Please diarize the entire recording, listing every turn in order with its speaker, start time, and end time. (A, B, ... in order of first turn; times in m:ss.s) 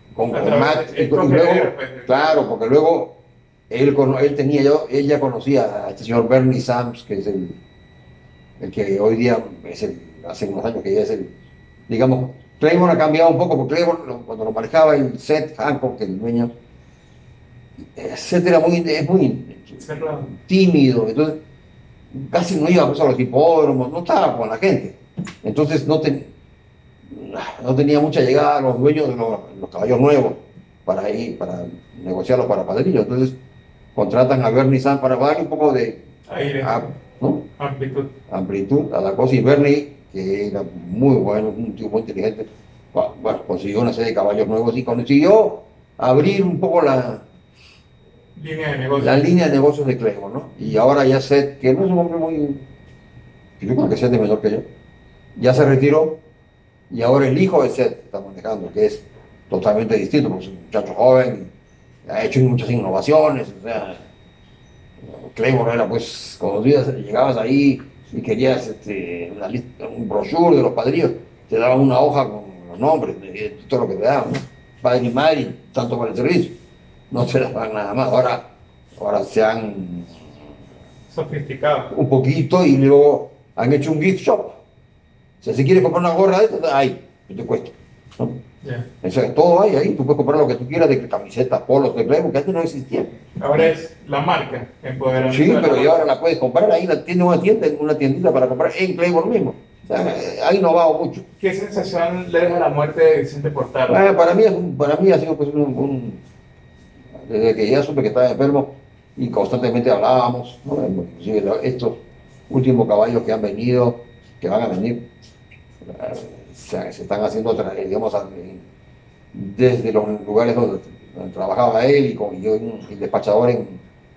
0:00.1-0:03.2 A
0:00.3-0:02.4 B
0:03.7-0:07.6 A
0:08.6-0:11.3 A
0:11.9-0:16.5 A
0:18.0-0:21.4 A
0:19.8-0:20.3 B
0:22.1-0:26.3 A
0:27.1-0:33.3 A
0:33.9-0:36.0 A
0:36.3-0:36.9 B
0:36.6-0:37.5 A
0:37.6-0:38.1 B
0:38.3-0:47.2 A
0:48.4-0:49.2 B
0:49.0-0:52.6 A
0:53.6-0:54.6 A
0:55.4-0:56.2 A
0:56.9-1:01.5 A
1:02.0-1:04.0 A
1:05.0-1:16.5 A
1:17.1-1:18.4 A
1:19.0-1:20.2 A
1:21.1-1:21.9 B
1:21.9-1:24.6 A
1:25.4-1:28.4 A
1:28.6-1:28.9 B
1:29.0-1:33.1 A
1:33.4-1:36.0 B
1:35.3-1:41.2 A
1:41.4-1:44.2 B
1:43.9-1:46.2 A
1:47.2-1:55.1 A
1:55.8-1:58.6 A
1:59.3-2:03.8 A